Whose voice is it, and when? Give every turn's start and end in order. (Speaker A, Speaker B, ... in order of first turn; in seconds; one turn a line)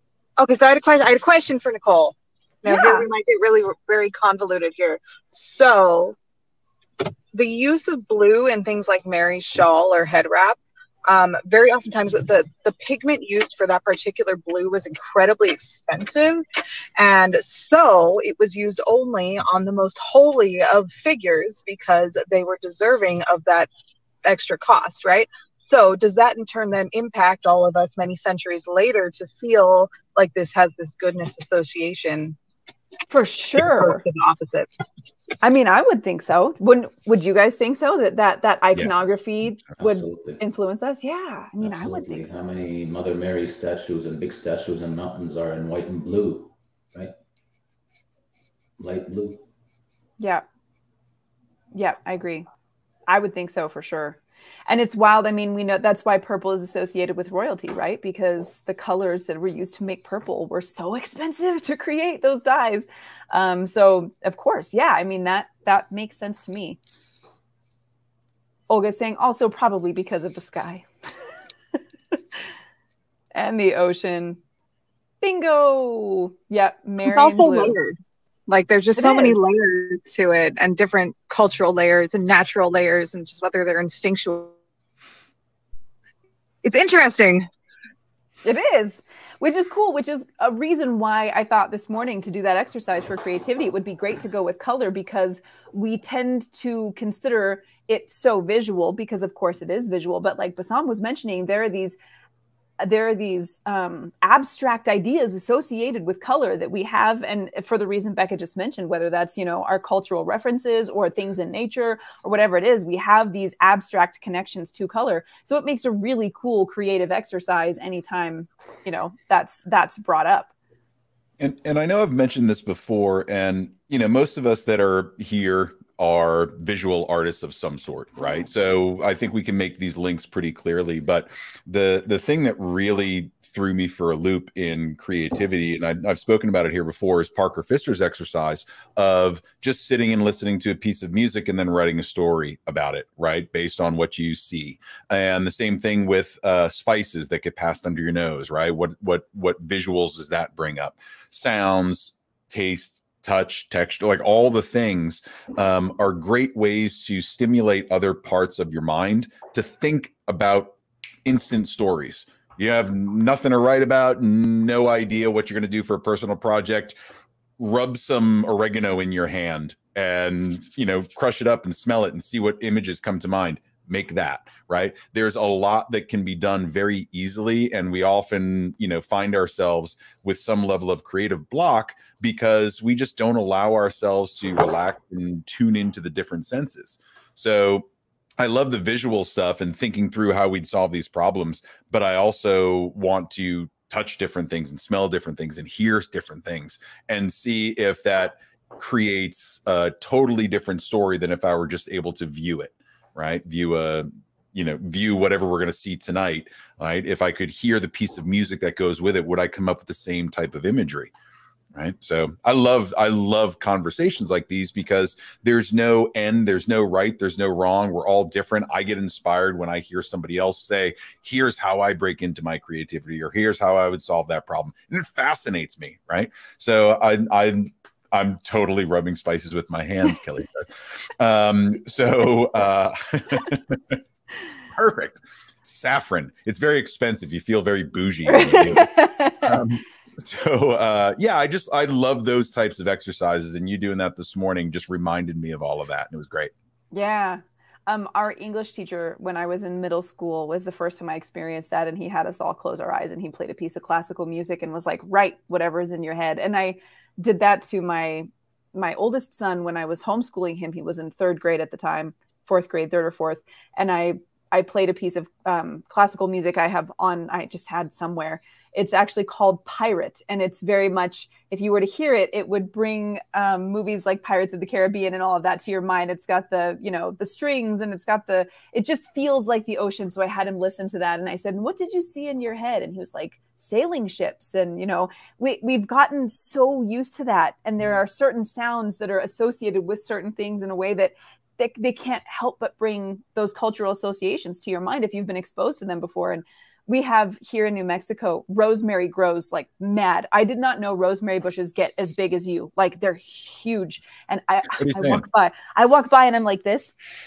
Speaker A: 0.4-6.1
Speaker B: 2.6-3.0
Speaker A: 7.3-10.6
Speaker A: 11.1-16.4
Speaker A: 17.0-23.7
Speaker A: 24.2-32.3
Speaker B: 33.1-34.0
Speaker A: 33.8-34.7
Speaker B: 35.4-42.3
Speaker C: 39.8-40.4
Speaker C: 41.6-47.1
Speaker C: 48.8-49.4
Speaker B: 50.2-50.4
Speaker B: 51.7-52.5
Speaker B: 53.1-66.8
Speaker B: 68.7-70.9
Speaker B: 73.3-74.4
Speaker B: 75.2-77.8
Speaker A: 77.1-77.9
Speaker A: 78.5-84.5
Speaker B: 79.0-79.4
Speaker A: 86.6-87.4
Speaker B: 88.4-102.0
Speaker B: 102.8-120.5
Speaker D: 121.4-166.9
Speaker D: 167.6-187.9
Speaker D: 188.4-211.1
Speaker D: 211.7-234.0
Speaker D: 234.7-246.5
Speaker B: 238.3-239.6
Speaker B: 246.9-306.9
Speaker D: 304.7-305.2